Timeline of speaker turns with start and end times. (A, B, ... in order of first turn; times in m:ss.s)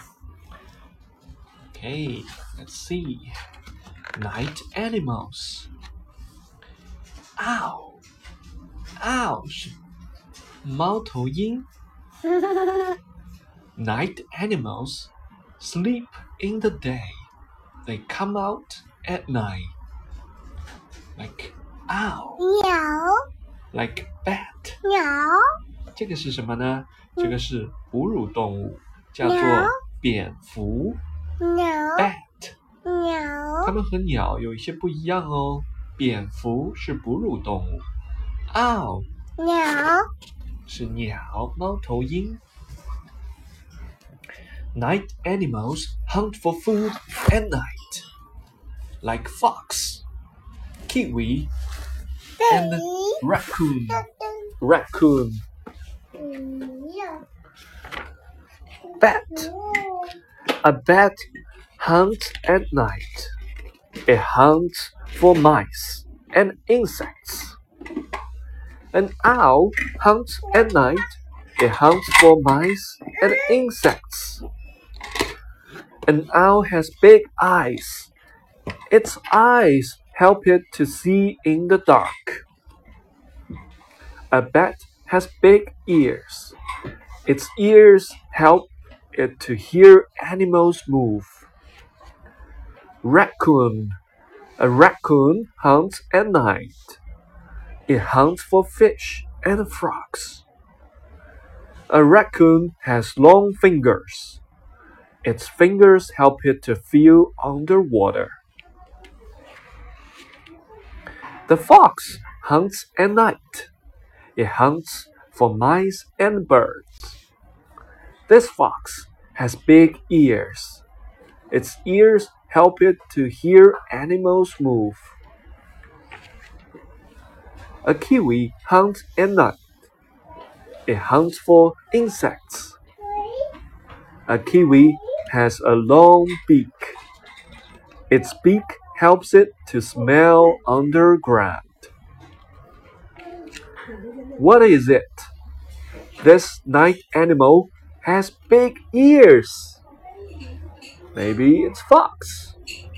0:01.7-0:03.3 A
0:04.2-0:05.7 A
0:07.4-0:08.0 A
0:09.0-0:09.8 A
0:10.6-0:11.7 A
0:12.4-0:12.9 B
0:13.8-0:17.2 A
0:17.8-0:19.7 A
0:21.2-0:22.4 A
0:22.4-0:23.2 B
0:23.7-0:24.8 A
0:24.8-0:25.5 B
0:25.9-0:31.0 A
0:29.2-0:29.8 B
0:31.4-0:32.1 B
0:32.0-0:32.6 A
0:32.8-0:33.7 B
0:33.6-0:37.8 A
0:38.5-0:39.1 A
0:39.4-0:40.1 B
0:40.6-0:42.4 A
0:44.7-0:48.1 A
0:49.0-0:50.0 A
0:50.9-0:51.5 A
0:52.4-0:53.2 B
0:52.5-0:54.0 A
0:54.0-0:54.5 B
0:54.6-0:55.4 A
0:56.2-0:57.2 B
0:59.0-0:59.5 A
0:59.0-1:00.2 B
1:00.5-1:01.2 A
1:01.8-1:03.3 A
1:04.1-1:07.6 A
1:08.9-1:14.4 A
1:16.0-1:18.1 A
1:18.9-1:22.4 A
1:24.3-1:26.6 A
1:27.2-1:31.5 A
1:33.0-1:34.0 A
1:34.6-1:37.0 A
1:37.9-1:40.4 A
1:41.9-1:44.4 A
1:45.2-1:48.4 A
1:51.5-1:53.7 A
1:54.4-1:57.2 A
1:58.3-2:00.8 A
2:01.5-2:05.1 A
2:07.8-2:09.6 A
2:10.9-2:12.8 A
2:13.0-2:13.5 B
2:14.3-2:17.0 A
2:18.1-2:21.9 A
2:24.4-2:25.3 A
2:26.2-2:29.8 A
2:31.1-2:32.6 A